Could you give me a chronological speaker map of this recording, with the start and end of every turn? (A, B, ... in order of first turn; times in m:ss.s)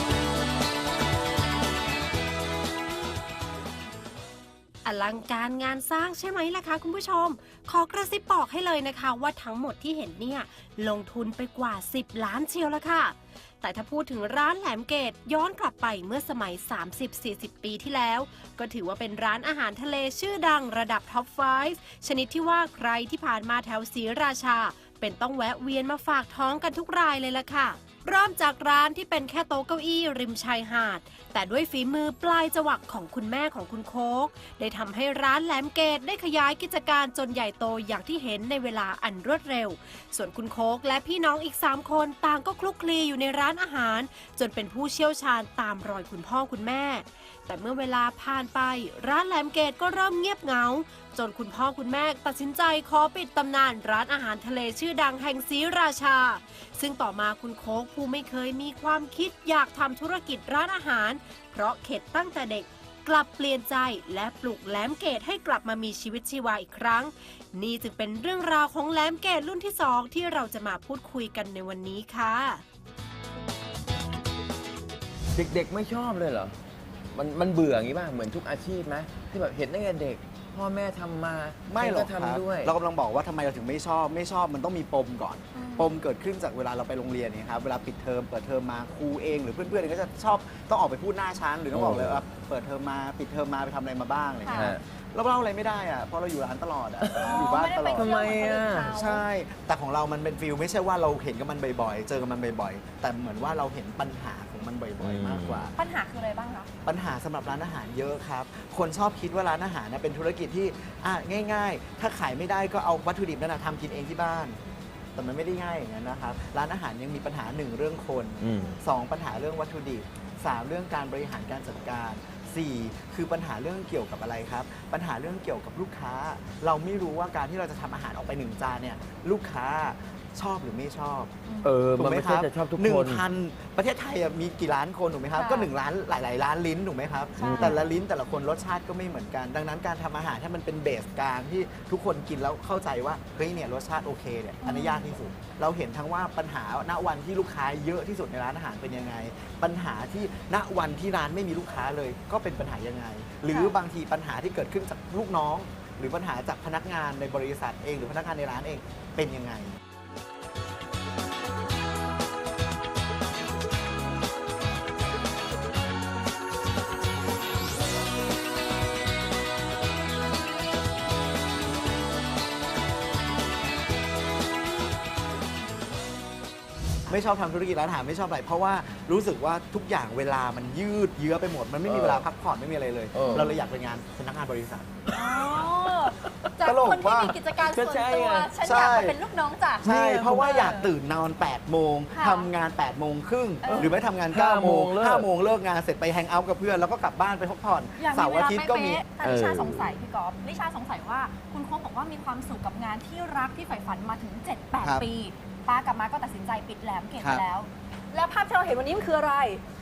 0:04.8-1:12.6 A
1:15.4-1:16.6 B
1:17.1-1:22.7 B
1:21.7-1:38.1 C
1:25.6-1:26.0 D
1:31.7-1:32.2 B
1:34.4-1:34.7 D
1:34.5-1:34.8 B
1:37.2-1:39.2 D
1:37.9-1:38.9 B
1:38.9-1:45.7 C
1:45.0-1:45.7 B
1:45.8-1:46.7 D
1:46.8-1:54.6 C
1:55.2-2:11.3 C
1:58.4-1:58.8 B
2:11.5-2:11.7 D
2:11.6-2:13.2 B
2:12.0-2:39.8 C
2:15.4-2:15.7 D
2:17.4-2:17.8 D
2:17.4-2:17.8 B
2:24.6-2:25.1 D
2:33.5-2:33.8 D
2:57.1-3:04.9 C
3:01.9-3:02.2 B
3:03.1-3:03.5 B
3:03.3-3:03.6 D
3:05.1-3:06.5 B
3:05.1-3:10.9 D
3:06.6-3:07.4 C
3:07.5-3:08.5 B
3:08.6-3:09.2 C
3:09.8-3:19.1 C
3:09.9-3:10.5 B
3:12.2-3:12.5 D
3:13.6-3:14.0 D
3:13.7-3:15.3 B
3:18.0-3:29.6 D
3:19.2-3:20.0 B
3:27.2-3:27.4 C